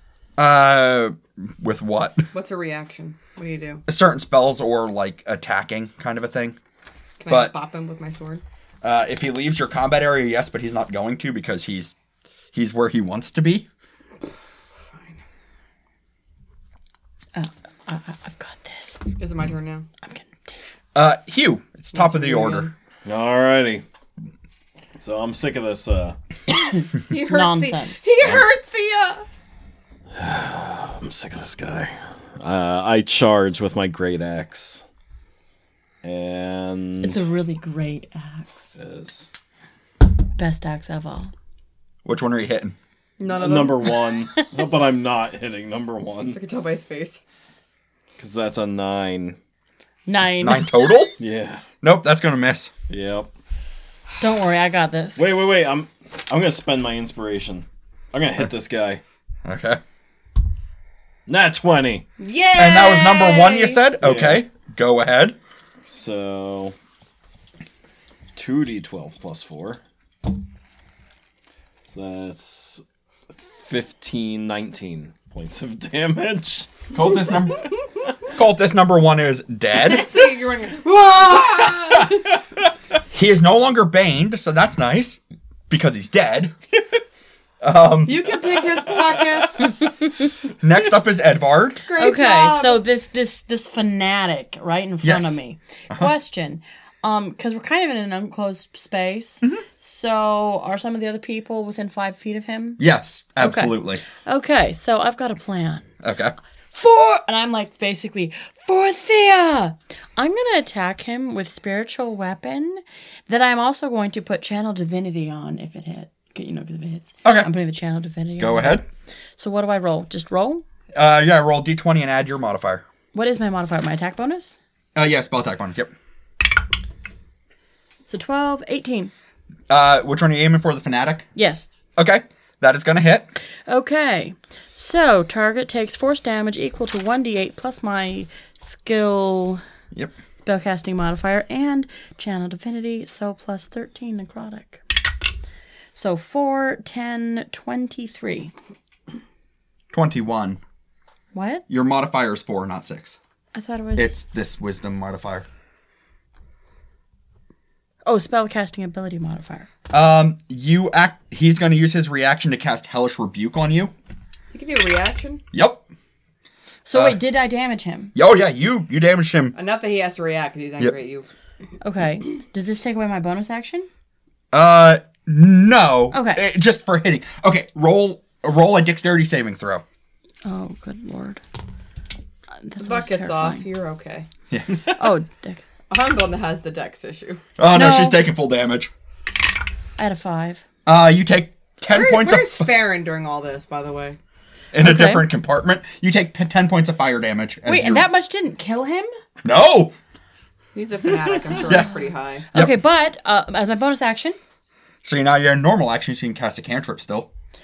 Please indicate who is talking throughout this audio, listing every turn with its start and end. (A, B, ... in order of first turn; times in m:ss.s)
0:00.4-0:02.3 A
0:02.3-0:03.8 B
0:03.9-0:06.6 A
0:07.2-0:08.4 B
0:08.8-0:11.9 A
0:12.5-0:13.7 A
0:14.8-0:15.2 B
0:17.3-0:19.0 C
0:19.2-0:19.9 B
0:20.0-0:20.6 C
0:20.9-0:22.7 A
0:21.9-0:22.7 B
0:23.0-0:23.8 D
0:25.0-0:26.2 D
0:26.6-0:28.0 C
0:27.1-0:29.2 B
0:30.1-0:34.8 D
0:36.0-0:37.2 D
0:37.0-0:38.7 C
0:38.7-0:39.3 D
0:40.4-0:41.3 C
0:42.0-0:42.8 A
0:43.2-0:44.2 B
0:43.3-0:46.4 D
0:46.3-0:47.2 B
0:48.2-0:49.4 D
0:50.0-0:50.8 C
0:50.4-0:51.2 A
0:51.2-0:51.6 D
0:51.8-0:52.7 A
0:52.9-0:53.3 D
0:54.2-0:55.3 C
0:55.2-0:59.0 D
0:59.4-0:59.8 A
1:01.3-1:02.0 D
1:02.2-1:03.8 B
1:02.6-1:05.4 A
1:04.0-1:04.4 D
1:05.8-1:06.7 D
1:08.3-1:09.8 D
1:11.9-1:16.8 D
1:16.9-1:17.7 A
1:18.3-1:20.1 A
1:19.7-1:22.4 B
1:21.9-1:22.2 D
1:23.1-1:26.5 A
1:27.6-1:28.3 A
1:28.0-1:29.8 B
1:28.4-1:29.7 D
1:30.6-1:31.8 A
1:31.8-1:32.8 B
1:32.0-1:42.8 C
1:35.0-1:35.4 A
1:42.8-1:44.0 A
1:43.4-1:45.8 C
1:46.0-1:46.3 A
1:46.7-1:58.8 C
1:57.2-1:57.5 A
1:58.4-1:58.8 A
1:59.4-2:00.6 C
2:00.9-2:02.8 A
2:03.1-2:04.6 C
2:04.9-2:05.9 A
2:08.1-2:09.1 C
2:09.7-2:11.3 A
2:11.4-2:11.7 C
2:12.0-2:13.3 A
2:13.7-2:19.6 C
2:20.4-2:24.8 C
2:25.9-2:28.5 C
2:29.9-2:30.6 A
2:31.3-2:31.6 C
2:31.7-2:33.2 A
2:33.5-2:34.2 C
2:34.0-2:35.4 A
2:38.0-2:39.7 C
2:39.9-2:43.9 A
2:44.5-2:45.4 B
2:45.5-2:45.8 A
2:46.8-2:48.1 C
2:48.1-2:49.5 A
2:49.5-2:51.3 B
2:51.8-2:53.9 C
2:54.5-2:59.8 A
2:56.1-2:56.4 C
3:00.4-3:01.4 C
3:02.6-3:03.6 C
3:02.8-3:04.3 B
3:04.5-3:04.9 A
3:04.9-3:05.6 C
3:05.9-3:07.4 B
3:07.6-3:08.9 A
3:07.7-3:08.2 C
3:10.0-3:10.6 C
3:10.8-3:12.7 A
3:11.9-3:14.2 B
3:14.7-3:18.1 A
3:14.8-3:15.3 C
3:17.6-3:19.1 C
3:19.4-3:19.9 A
3:20.7-3:22.5 B
3:21.6-3:21.9 A
3:22.5-3:24.4 C
3:25.0-3:27.3 A